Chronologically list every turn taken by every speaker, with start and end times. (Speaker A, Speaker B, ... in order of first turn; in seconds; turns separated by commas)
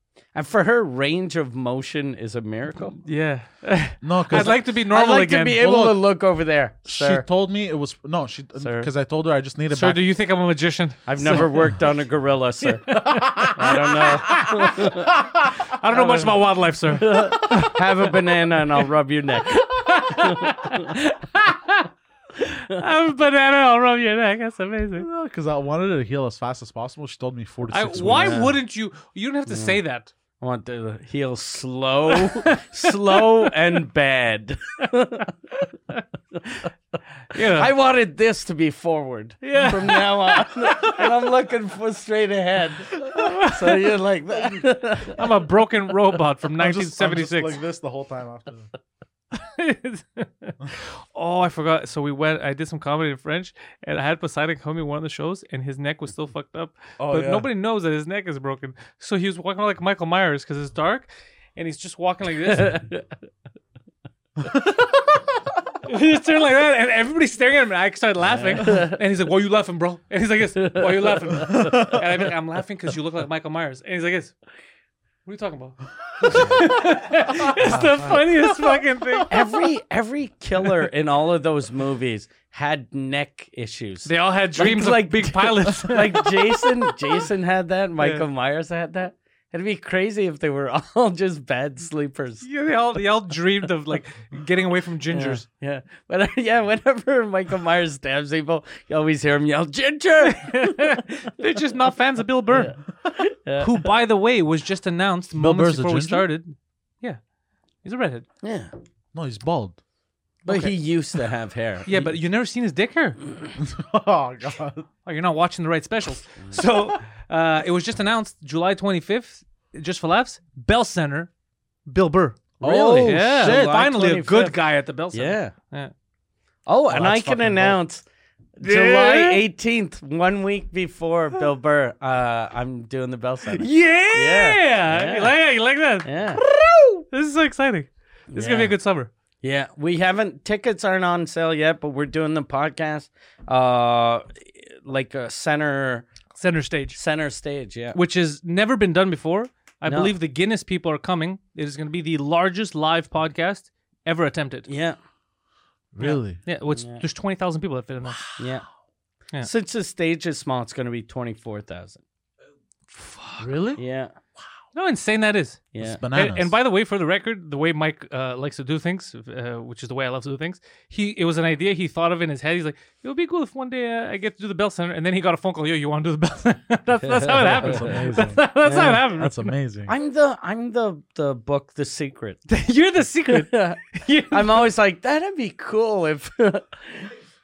Speaker A: 0.3-3.0, Speaker B: 3.0-5.6, Speaker C: 4.0-4.6, Speaker A: 4.3-7.2, Speaker C: 5.6-6.0, Speaker C: 6.8-10.0, Speaker A: 8.6-8.9, Speaker B: 9.7-11.7, Speaker A: 11.1-12.9, Speaker B: 12.9-18.2, Speaker C: 13.1-13.5, Speaker A: 13.5-15.1, Speaker A: 15.9-16.4, Speaker A: 16.9-20.9, Speaker B: 19.6-25.1, Speaker C: 25.0-28.5, Speaker B: 27.7-30.1, Speaker A: 28.0-28.5, Speaker A: 29.5-29.8, Speaker A: 30.4-35.3, Speaker B: 32.1-33.3, Speaker B: 37.3-37.7, Speaker A: 37.3-45.2, Speaker B: 39.4-40.9, Speaker B: 43.1-43.8, Speaker B: 45.0-47.6, Speaker C: 46.6-48.7, Speaker B: 49.3-62.9, Speaker C: 57.0-57.5, Speaker B: 65.8-74.3, Speaker A: 68.3-68.9, Speaker C: 71.5-72.0, Speaker B: 75.2-79.4, Speaker C: 77.4-78.4, Speaker A: 79.3-92.5, Speaker B: 84.0-87.2, Speaker B: 88.0-88.2, Speaker B: 92.4-95.4, Speaker A: 95.1-101.0, Speaker B: 100.3-102.8, Speaker A: 102.5-103.7, Speaker B: 103.6-107.2, Speaker C: 105.3-106.3, Speaker B: 107.8-108.2, Speaker A: 108.4-108.7, Speaker C: 109.1-109.8, Speaker A: 110.4-112.1, Speaker B: 110.5-110.7, Speaker B: 111.9-113.2, Speaker C: 113.6-114.9, Speaker B: 115.0-121.3, Speaker B: 121.9-125.9, Speaker A: 122.6-124.5, Speaker C: 122.6-123.8, Speaker A: 125.1-125.5, Speaker A: 126.7-128.1, Speaker C: 126.9-127.7, Speaker B: 127.0-127.5, Speaker A: 128.6-135.4, Speaker B: 128.6-129.4, Speaker B: 133.5-139.1, Speaker A: 136.0-136.4, Speaker A: 138.3-138.7, Speaker A: 139.4-146.1, Speaker B: 146.3-147.0, Speaker A: 146.9-148.0, Speaker B: 147.9-154.7, Speaker A: 149.9-150.1, Speaker A: 154.7-155.0, Speaker C: 155.9-156.4, Speaker B: 156.0-158.4, Speaker A: 156.7-157.0, Speaker A: 158.4-158.6, Speaker A: 159.4-162.0, Speaker B: 162.9-163.8, Speaker A: 163.8-164.1, Speaker B: 164.7-179.5, Speaker A: 165.7-166.0, Speaker C: 165.8-166.5, Speaker A: 177.0-178.0, Speaker C: 177.5-179.9, Speaker A: 178.6-179.1, Speaker A: 179.9-182.4, Speaker B: 182.5-184.7, Speaker A: 183.3-187.1